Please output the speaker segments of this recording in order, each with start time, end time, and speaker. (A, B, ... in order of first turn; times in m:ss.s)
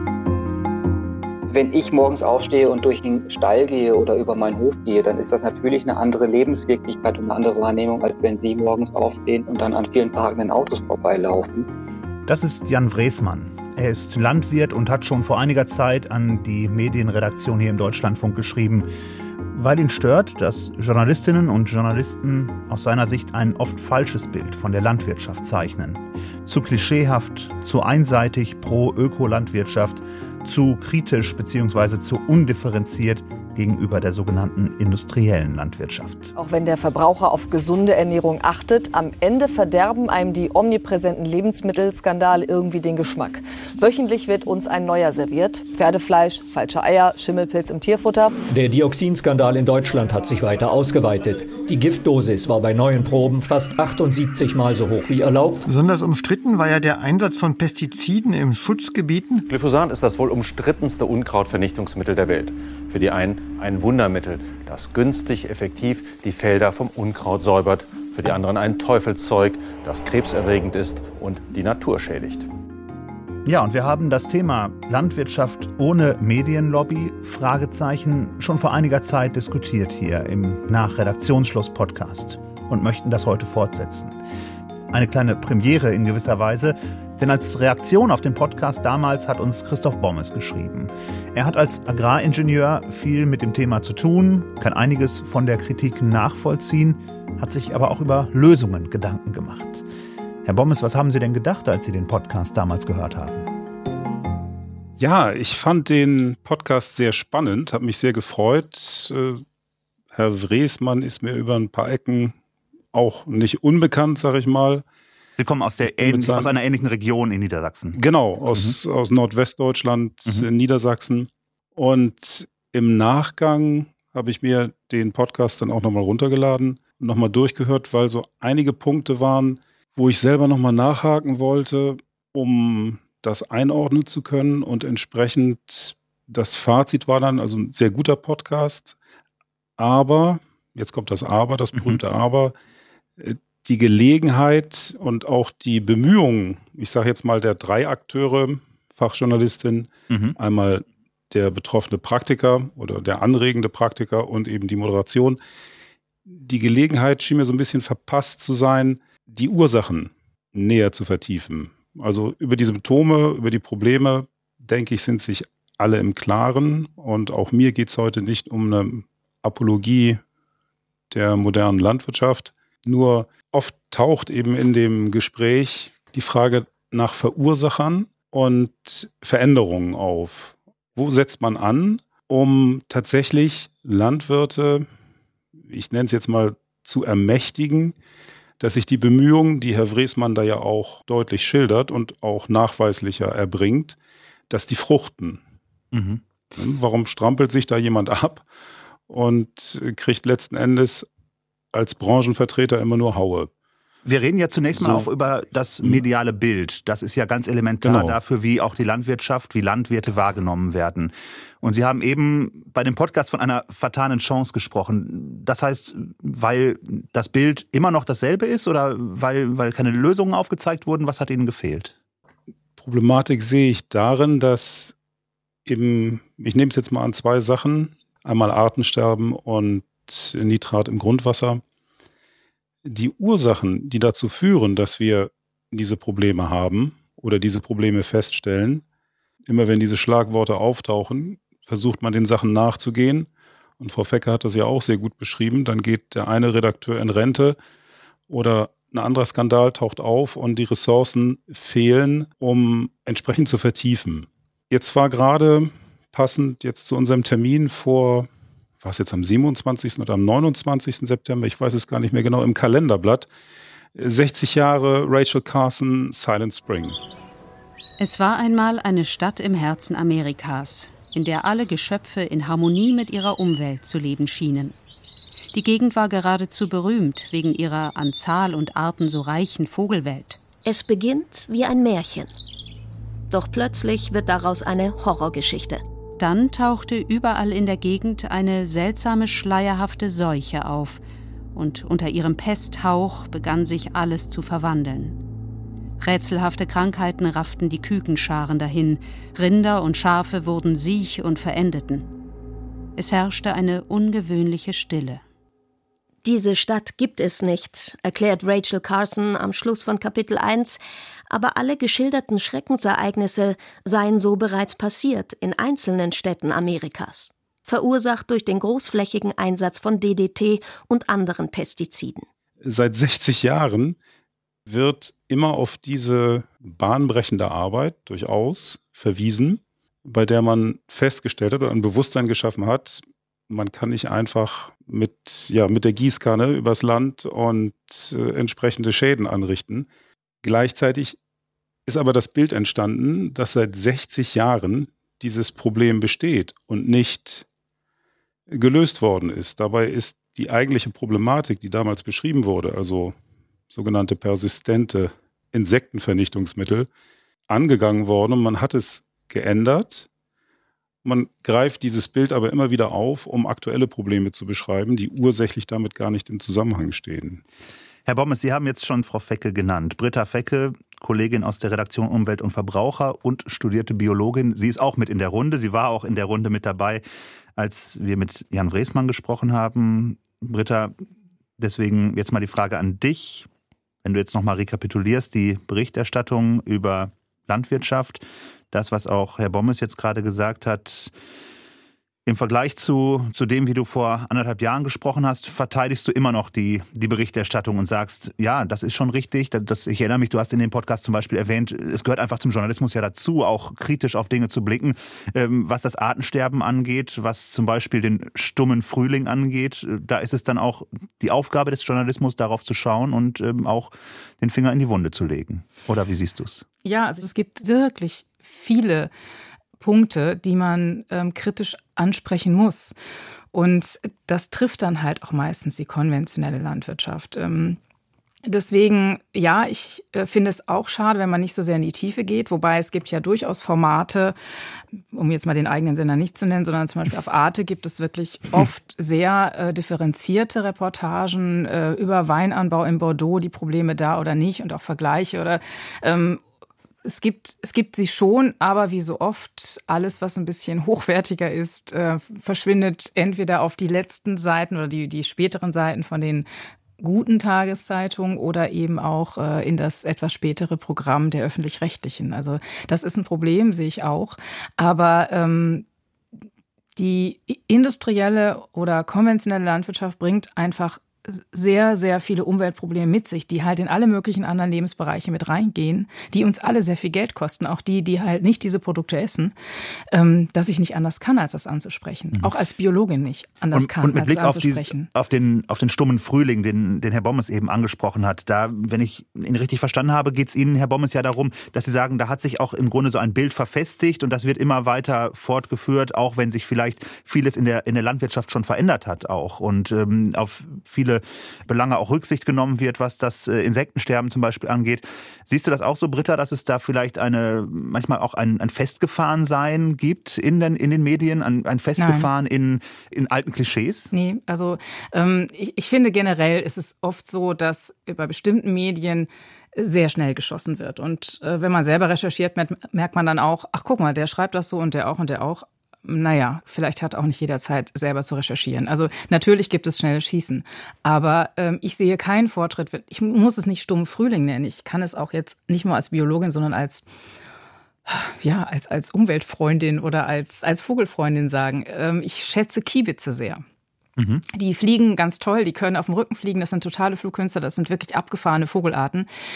0:01.5-0:11.7 A
0:12.3-0:18.9 B
0:19.5-0:36.3 B
0:36.4-0:48.4 C
0:48.5-0:55.6 D
0:55.7-0:59.4 E
0:59.5-1:12.5 F
1:13.5-1:24.2 B
1:24.9-1:39.9 B
1:40.4-1:43.5 B
1:45.0-1:49.4 G
1:50.1-1:52.4 G
1:52.9-1:54.8 G
1:55.4-1:58.0 B
1:56.0-1:56.5 G
1:58.0-2:19.0 G
2:19.8-2:22.6 G
2:21.8-2:22.0 B
2:23.2-2:35.4 G
2:30.1-2:30.4 B
2:36.3-2:50.2 G
2:51.1-3:04.9 G
3:05.7-3:08.0 G
3:08.6-3:14.0 G
3:14.5-3:15.4 G
3:15.9-3:16.2 B
3:16.6-3:18.4 G
3:19.1-3:21.1 G
3:21.7-3:23.5 G
3:24.0-3:42.0 B
3:24.8-3:25.1 G
3:27.8-3:28.2 G
3:42.8-3:44.9 G
3:45.7-3:51.6 G
3:52.8-3:58.8 G
3:59.5-4:03.3 G
4:03.8-4:07.6 G
4:08.3-4:18.3 G
4:18.8-4:23.3 G
4:24.0-4:27.0 G
4:28.0-4:34.8 H
4:35.5-4:40.4 H
4:40.6-4:42.3 I
4:43.3-4:45.8 I
4:46.2-4:51.0 H
4:51.6-4:55.2 H
4:56.0-5:02.1 H
5:03.0-5:05.2 H
5:06.2-5:22.3 I
5:22.6-5:24.0 G
5:24.7-5:39.9 G
5:40.4-5:41.2 G
5:41.9-5:47.5 G
5:48.5-5:53.2 G
5:53.7-5:56.9 G
5:57.5-6:00.1 G
6:01.0-6:07.4 G
6:08.1-6:17.0 B
6:17.6-6:20.9 B
6:21.6-6:23.5 B
6:24.0-6:31.1 B
6:32.3-6:56.6 B
6:56.8-6:59.1 J
6:59.8-7:03.0 J
7:03.5-7:07.8 J
7:08.5-7:14.4 J
7:15.1-7:26.4 J
7:27.0-7:36.5 J
7:37.0-7:45.8 J
7:47.0-7:59.5 J
8:00.1-8:05.1 J
8:03.7-8:34.1 B
8:32.0-8:32.3 J
8:34.1-8:57.1 J
8:58.1-9:03.6 J
9:04.2-9:04.4 B
9:04.5-9:09.3 J